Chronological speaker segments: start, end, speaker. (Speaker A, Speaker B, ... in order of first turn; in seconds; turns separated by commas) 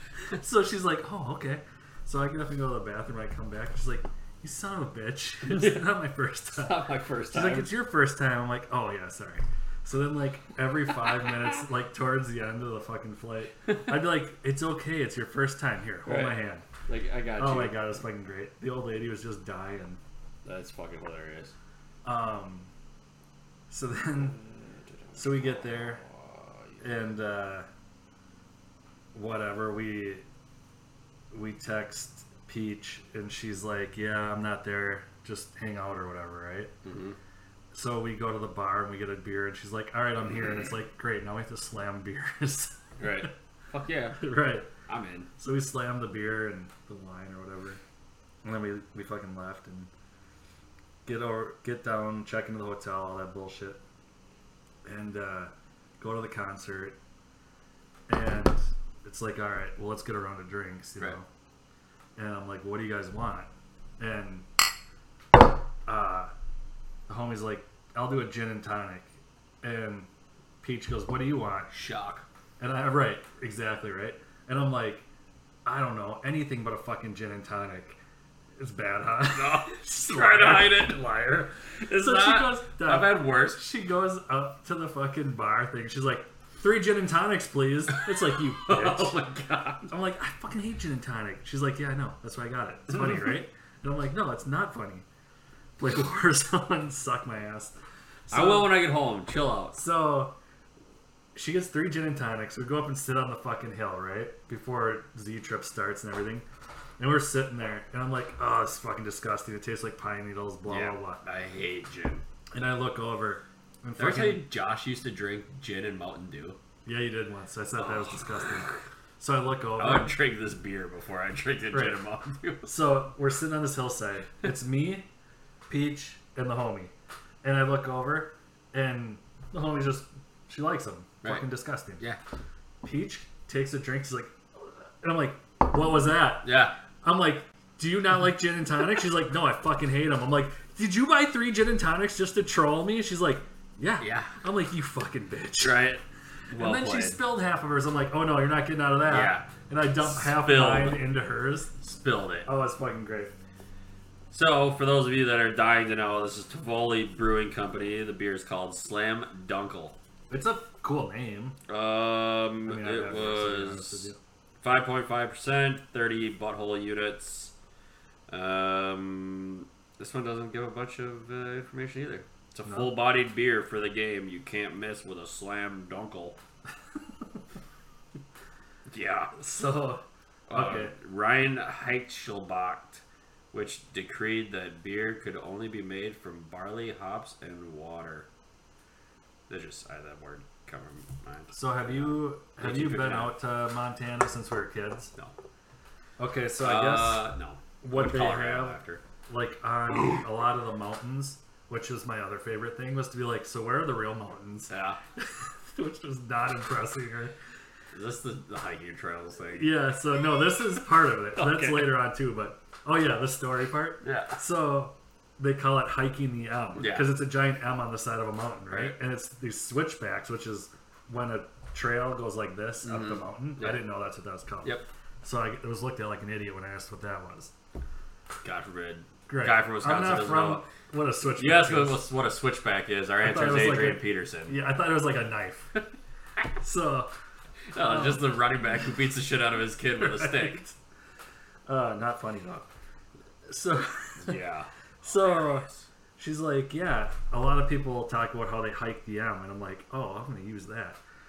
Speaker A: 0.3-16.6, Speaker B: 5.5-5.8, Speaker B: 6.5-7.7, Speaker B: 16.0-17.9, Speaker A: 17.4-20.0, Speaker B: 20.4-21.5, Speaker A: 22.0-22.7, Speaker A: 23.7-24.4, Speaker B: 24.4-26.8, Speaker A: 25.1-26.0, Speaker A: 26.8-27.7, Speaker A: 29.1-30.2, Speaker A: 31.3-36.7, Speaker B: 36.8-37.2, Speaker A: 37.7-43.3, Speaker B: 43.0-44.2, Speaker A: 44.2-44.7, Speaker B: 44.9-45.3, Speaker A: 45.4-47.8, Speaker A: 48.4-49.9, Speaker A: 51.0-53.8, Speaker A: 54.8-57.0, Speaker A: 58.1-61.3, Speaker A: 62.1-64.5, Speaker A: 65.9-66.3, Speaker A: 67.1-70.1, Speaker A: 70.6-71.7, Speaker B: 71.7-72.2, Speaker A: 72.6-75.0, Speaker A: 75.6-78.0, Speaker A: 78.6-89.2, Speaker B: 79.3-81.0, Speaker B: 81.8-83.6, Speaker B: 87.9-89.9, Speaker A: 89.9-95.0, Speaker A: 95.8-97.7, Speaker A: 98.3-98.7, Speaker B: 98.3-99.8, Speaker A: 99.7-100.3, Speaker A: 101.3-106.5, Speaker A: 107.0-111.2, Speaker B: 110.7-112.2, Speaker A: 112.5-114.5, Speaker B: 114.0-116.6, Speaker A: 116.8-120.1, Speaker B: 117.8-118.8, Speaker B: 119.8-122.7, Speaker A: 121.7-122.0, Speaker A: 122.6-125.1, Speaker A: 125.7-132.0, Speaker A: 132.8-136.5, Speaker B: 136.4-136.8, Speaker A: 137.0-145.8, Speaker B: 144.0-144.3, Speaker B: 145.6-147.2, Speaker A: 146.5-151.7, Speaker B: 149.1-151.0, Speaker B: 151.8-152.5, Speaker A: 152.4-153.3, Speaker B: 154.3-159.9, Speaker A: 160.3-161.6, Speaker B: 161.7-164.1, Speaker A: 162.6-164.2, Speaker B: 164.6-167.5, Speaker B: 168.3-176.4, Speaker A: 172.7-172.9, Speaker B: 178.9-179.3, Speaker A: 179.3-180.9, Speaker B: 180.5-188.3, Speaker B: 189.5-193.3, Speaker A: 191.5-195.1, Speaker A: 196.2-197.3, Speaker B: 196.6-199.0, Speaker A: 197.8-207.3, Speaker B: 204.7-205.0, Speaker B: 207.9-209.7, Speaker A: 209.5-227.5, Speaker B: 211.3-212.0, Speaker B: 214.0-214.4, Speaker B: 216.8-217.1, Speaker B: 218.7-218.9, Speaker B: 222.8-223.8, Speaker B: 228.4-230.6, Speaker A: 229.3-232.0, Speaker B: 231.4-234.6, Speaker A: 233.2-235.8, Speaker A: 236.6-237.1, Speaker B: 237.7-240.6, Speaker A: 237.8-238.3, Speaker A: 239.9-240.8, Speaker A: 241.7-242.7, Speaker A: 243.5-244.4, Speaker B: 244.2-245.9, Speaker A: 245.0-251.0